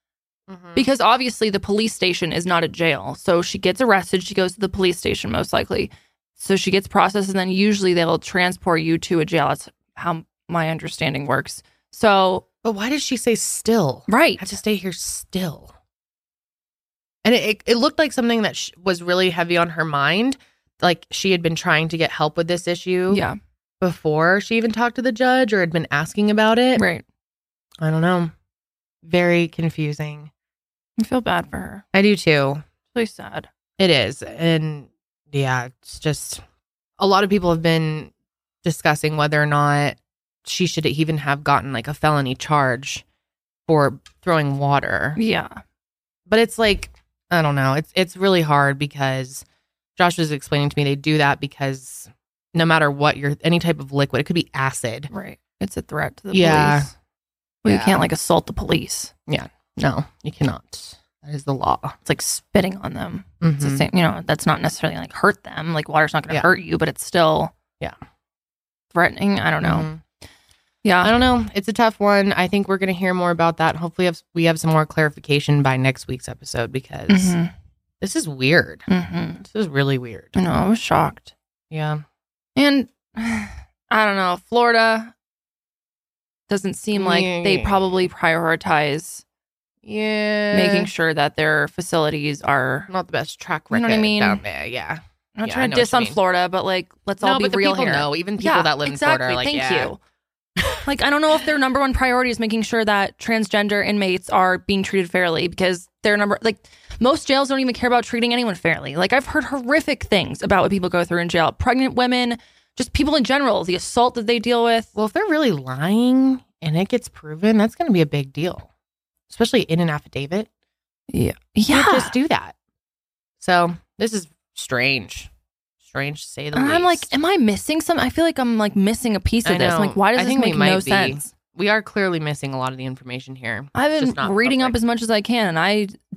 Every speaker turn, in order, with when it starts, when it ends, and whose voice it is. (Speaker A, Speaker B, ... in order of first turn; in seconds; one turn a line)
Speaker A: 0.5-0.9
Speaker B: 0.8-12.4
Speaker A: 12.6-15.7
Speaker B: 14.1-14.5
Speaker A: 17.2-23.2
Speaker B: 23.1-23.4
Speaker A: 23.8-26.9
Speaker B: 26.8-27.0
Speaker A: 27.8-28.3
Speaker A: 29.0-30.3
Speaker B: 31.0-31.8
Speaker A: 31.9-32.6
Speaker B: 32.9-33.5
Speaker A: 33.8-36.4
Speaker A: 37.0-38.1
Speaker A: 38.6-43.0
Speaker A: 43.7-45.2
Speaker B: 45.2-45.6
Speaker A: 46.3-49.5
Speaker A: 50.0-55.1
Speaker B: 55.1-56.9
Speaker A: 56.3-56.9
Speaker B: 57.6-59.1
Speaker A: 57.6-58.0
Speaker A: 59.3-62.0
Speaker B: 62.0-67.5
Speaker A: 63.4-63.9
Speaker B: 68.9-69.9
Speaker A: 69.6-70.0
Speaker B: 70.8-71.2
Speaker A: 71.0-77.3
Speaker B: 77.1-77.5
Speaker A: 78.0-78.9
Speaker B: 78.9-79.4
Speaker A: 79.4-80.4
Speaker B: 80.4-81.3
Speaker A: 81.7-82.0
Speaker B: 82.6-85.1
Speaker B: 86.5-89.2
Speaker A: 86.9-88.1
Speaker A: 89.8-90.9
Speaker B: 90.5-92.9
Speaker A: 92.9-96.2
Speaker B: 93.7-94.4
Speaker B: 95.4-100.0
Speaker A: 97.2-99.9
Speaker B: 100.8-114.9
Speaker A: 115.0-118.7
Speaker A: 119.3-120.5
Speaker B: 121.1-122.2
Speaker A: 121.7-122.5
Speaker A: 123.4-125.3
Speaker A: 125.8-127.1
Speaker B: 126.5-131.3
Speaker A: 129.4-134.8
Speaker B: 133.8-136.0